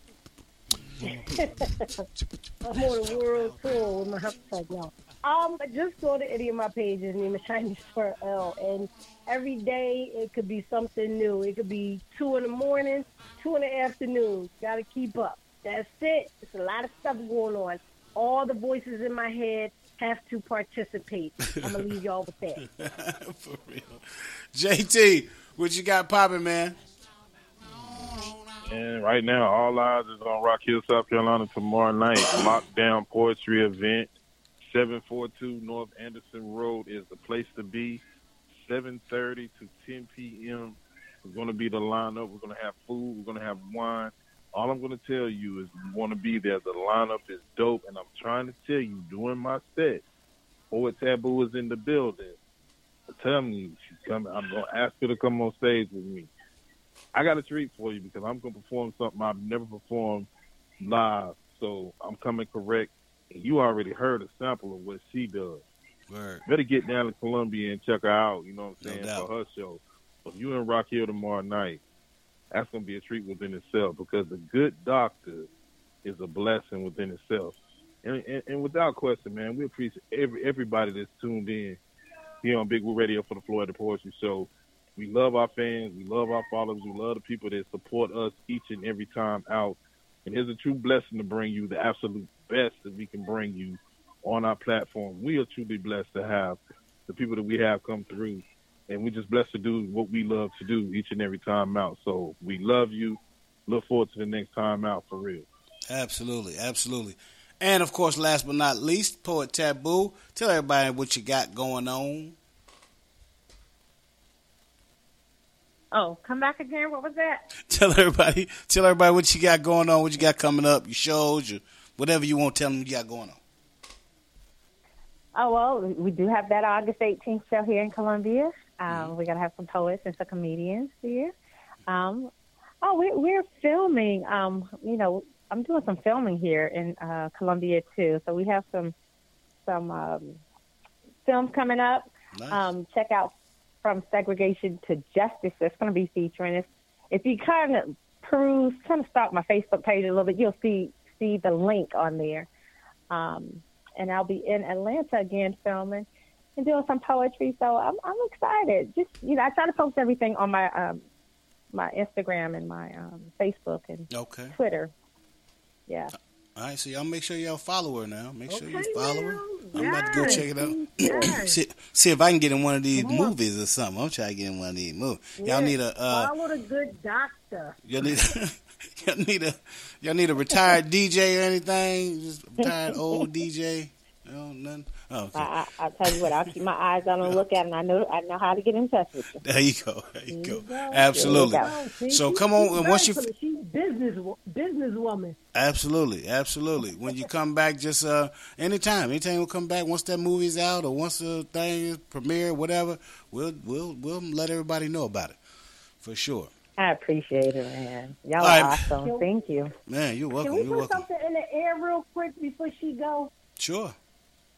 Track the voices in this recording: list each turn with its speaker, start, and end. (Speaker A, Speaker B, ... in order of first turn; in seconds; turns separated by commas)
Speaker A: 1.0-1.7, Speaker B: 1.1-2.0, Speaker B: 2.6-22.6, Speaker A: 21.6-21.9, Speaker A: 22.6-26.8, Speaker A: 27.7-28.4, Speaker C: 28.6-34.1, Speaker A: 32.2-32.5, Speaker C: 34.6-38.0, Speaker C: 38.5-50.0, Speaker C: 50.7-52.4, Speaker C: 53.1-56.3, Speaker C: 57.1-60.3, Speaker C: 60.8-65.6, Speaker A: 66.1-66.4, Speaker C: 66.5-71.8, Speaker A: 68.8-69.3, Speaker C: 72.5-75.5, Speaker C: 76.0-81.8, Speaker C: 82.4-105.5, Speaker A: 105.9-112.3, Speaker D: 115.9-117.4, Speaker A: 117.7-123.4, Speaker D: 125.3-131.3, Speaker A: 128.9-129.2, Speaker D: 131.9-132.3, Speaker D: 132.8-138.9, Speaker D: 139.7-140.4, Speaker D: 141.2-152.5, Speaker A: 142.3-142.6, Speaker D: 153.1-161.0, Speaker D: 161.7-164.9, Speaker A: 164.1-164.6, Speaker D: 165.9-166.1, Speaker A: 166.6-176.3, Speaker B: 168.5-171.6, Speaker D: 169.8-171.4, Speaker B: 173.0-173.3, Speaker B: 175.4-177.8, Speaker A: 177.8-185.5, Speaker D: 182.6-183.3, Speaker D: 185.3-189.4, Speaker A: 186.1-186.5, Speaker A: 189.4-193.3, Speaker D: 190.3-191.8, Speaker B: 190.4-195.4, Speaker A: 195.6-205.4, Speaker A: 206.0-206.5, Speaker D: 206.8-209.7, Speaker A: 208.4-208.9, Speaker B: 209.0-209.4, Speaker A: 209.9-211.1, Speaker B: 210.4-213.3, Speaker A: 213.6-214.0